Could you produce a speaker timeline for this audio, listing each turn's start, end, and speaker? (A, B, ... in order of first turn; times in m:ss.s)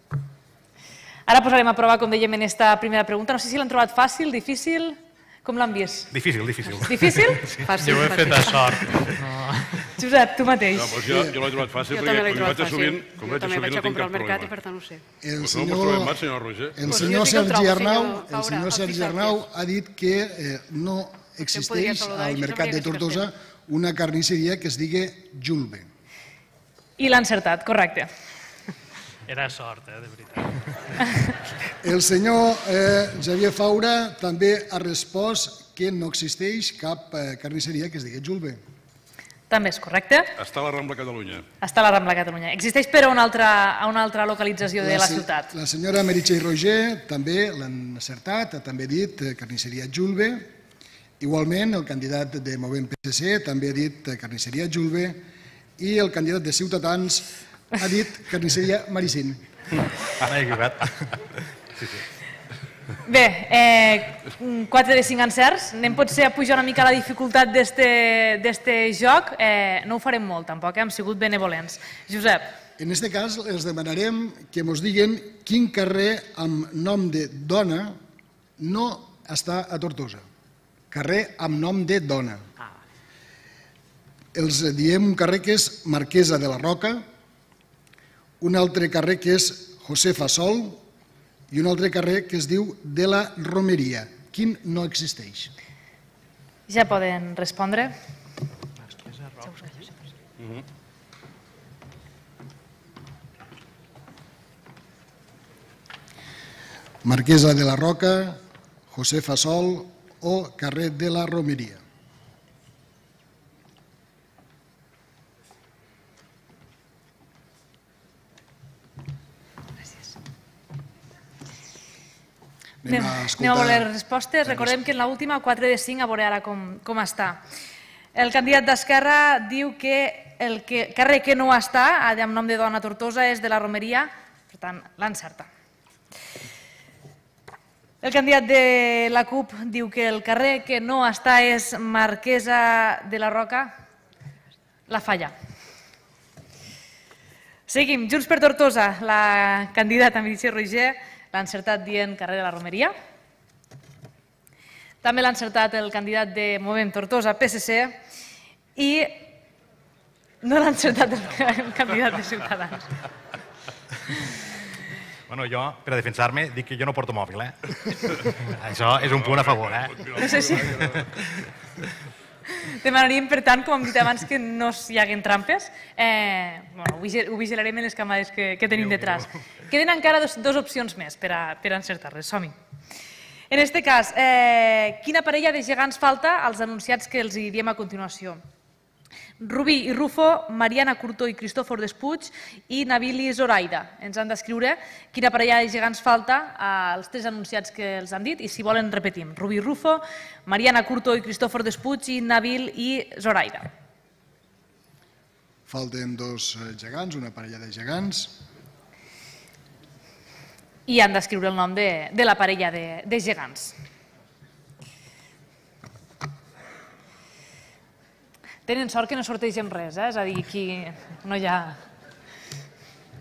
0:01.3-0:06.1 A
0:06.1-0:07.6 B
0:06.8-0:07.4 A
0:07.1-0:09.0 C
0:07.8-0:09.9 D
0:10.0-0:11.0 A
0:10.8-0:14.5 E
0:11.1-0:11.4 F
0:11.9-0:15.0 C
0:15.2-0:16.2 F
0:15.4-0:17.1 E
0:16.8-0:25.9 F
0:16.8-0:19.4 C
0:21.5-0:23.3 C
0:27.0-0:28.1 A
0:29.3-0:31.2 D
0:31.8-0:38.6 F
0:39.5-0:40.3 A
0:40.4-0:41.5 E
0:41.6-0:45.5 A
0:44.8-0:50.5 F
0:51.2-0:55.2 F
0:55.8-0:59.4 F
1:00.2-1:01.2 B
1:03.0-1:12.5 A
1:12.8-1:18.0 F
1:18.6-1:20.2 F
1:20.9-1:22.4 F
1:24.3-1:27.0 F
1:28.4-1:30.8 F
1:31.5-1:35.5 F
1:36.7-1:37.9 A
1:47.0-1:48.4 F
1:48.9-1:51.8 F
2:02.8-2:03.9 F
2:02.9-2:07.4 A
2:04.5-2:04.8 F
2:08.2-2:15.5 A
2:18.0-2:23.7 A
2:24.9-2:25.3 A
2:27.7-2:32.9 A
2:35.0-2:38.0 A
2:38.8-2:39.3 A
2:40.4-2:42.9 A
2:45.3-2:50.1 B
2:49.0-2:51.1 E
2:50.2-2:50.7 A
2:52.6-3:02.5 A
3:03.5-3:08.4 A
3:09.4-3:23.7 A
3:25.7-3:28.4 F
3:30.9-3:33.7 A
3:38.7-3:41.8 A